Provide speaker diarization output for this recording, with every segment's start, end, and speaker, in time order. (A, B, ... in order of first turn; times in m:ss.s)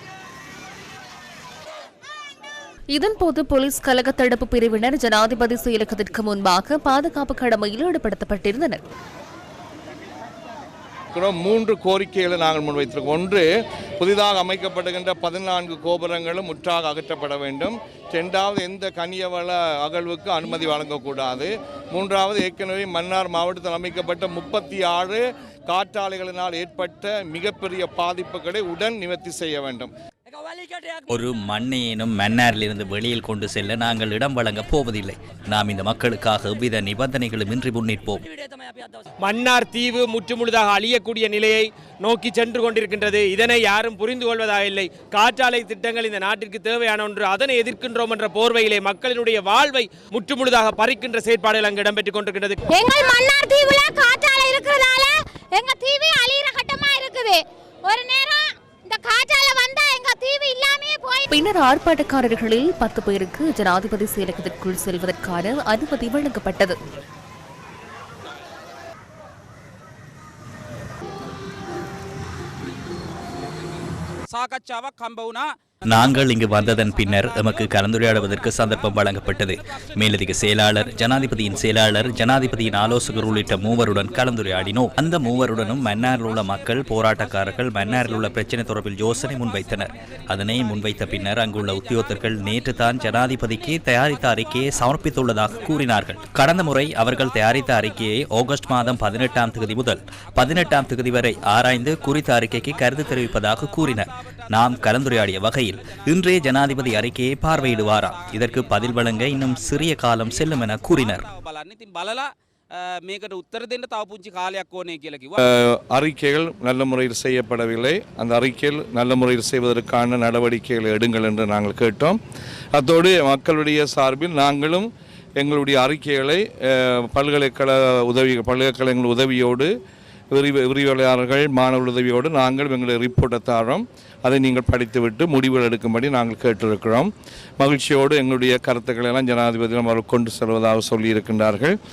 0:02.9-0:08.8 A
0:11.1-0:13.4 B
0:14.0-0:29.9 B
0:31.1-0:38.2 C
0:39.2-0:52.6 D
0:52.7-1:01.3 E
1:01.3-1:06.8 A
1:14.3-1:15.6 F
1:15.9-1:51.2 C
1:50.3-1:55.4 F
1:55.4-2:02.2 B
2:02.8-2:09.7 B
2:10.3-2:21.8 B